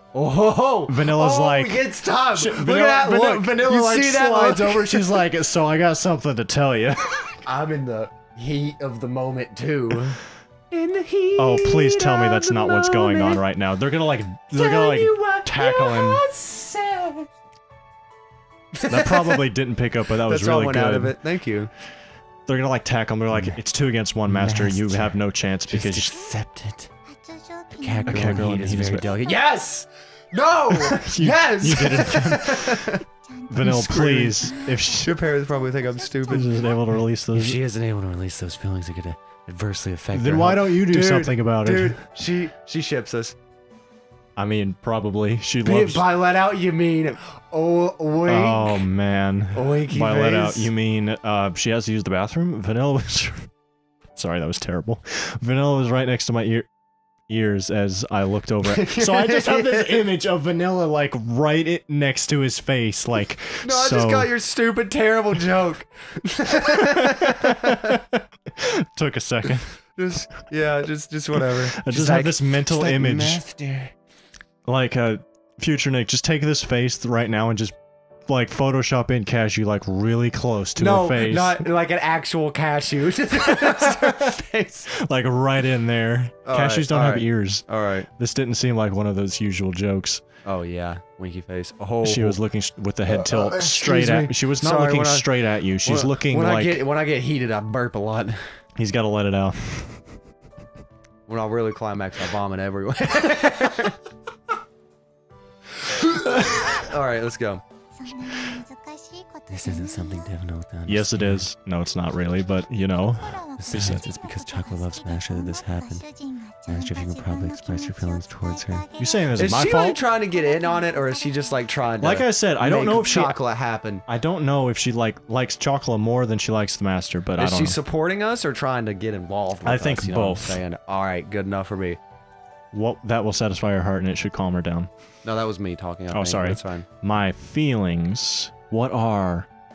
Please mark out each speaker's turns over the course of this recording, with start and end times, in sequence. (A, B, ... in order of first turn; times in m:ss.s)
0:00.1-0:05.2 A
0:00.9-0:07.4 B
0:07.4-0:13.4 A
0:11.4-0:16.2 B
0:14.5-0:17.3 A
0:18.7-0:19.4 A
0:18.9-0:21.2 B
0:20.2-0:21.7 A
0:22.5-0:26.1 B
0:23.3-0:23.6 A
0:24.3-0:25.1 A
0:25.7-0:26.9 A
0:27.1-0:29.4 C
0:27.8-0:33.0 A
0:28.1-0:29.1 B
0:30.8-0:33.0 B
0:33.3-0:36.8 C
0:33.5-0:35.1 B
0:33.6-0:36.6 A
0:36.3-0:37.6 B
0:37.3-0:43.4 A
0:40.1-0:42.0 B
0:44.4-0:46.1 B
0:45.6-0:48.9 A
0:48.2-0:53.5 B
0:49.5-0:50.7 A
0:54.2-0:56.7 B
0:57.3-1:04.3 B
0:58.6-1:00.1 A
1:03.6-1:08.0 A
1:06.6-1:09.7 B
1:10.0-1:13.9 A
1:11.4-1:13.4 B
1:14.6-1:17.8 B
1:18.3-1:21.7 B
1:20.8-1:24.9 A
1:23.5-1:24.2 B
1:25.0-1:27.7 B
1:26.4-1:28.1 A
1:28.2-1:30.2 B
1:30.4-1:32.4 A
1:32.0-1:36.8 B
1:33.1-1:38.6 A
1:38.8-1:40.1 B
1:41.3-1:44.0 A
1:45.8-1:47.6 A
1:48.0-1:50.4 C
1:49.5-1:51.4 A
1:50.9-1:54.0 B
1:53.0-2:01.7 C
1:53.6-1:56.0 A
1:56.7-1:58.8 A
1:59.0-2:00.0 B
1:59.4-2:04.0 A
2:02.0-2:03.4 B
2:04.1-2:07.8 B
2:07.4-2:12.0 A
2:09.6-2:10.6 B
2:12.7-2:14.9 B
2:15.2-2:16.9 A
2:16.1-2:19.5 B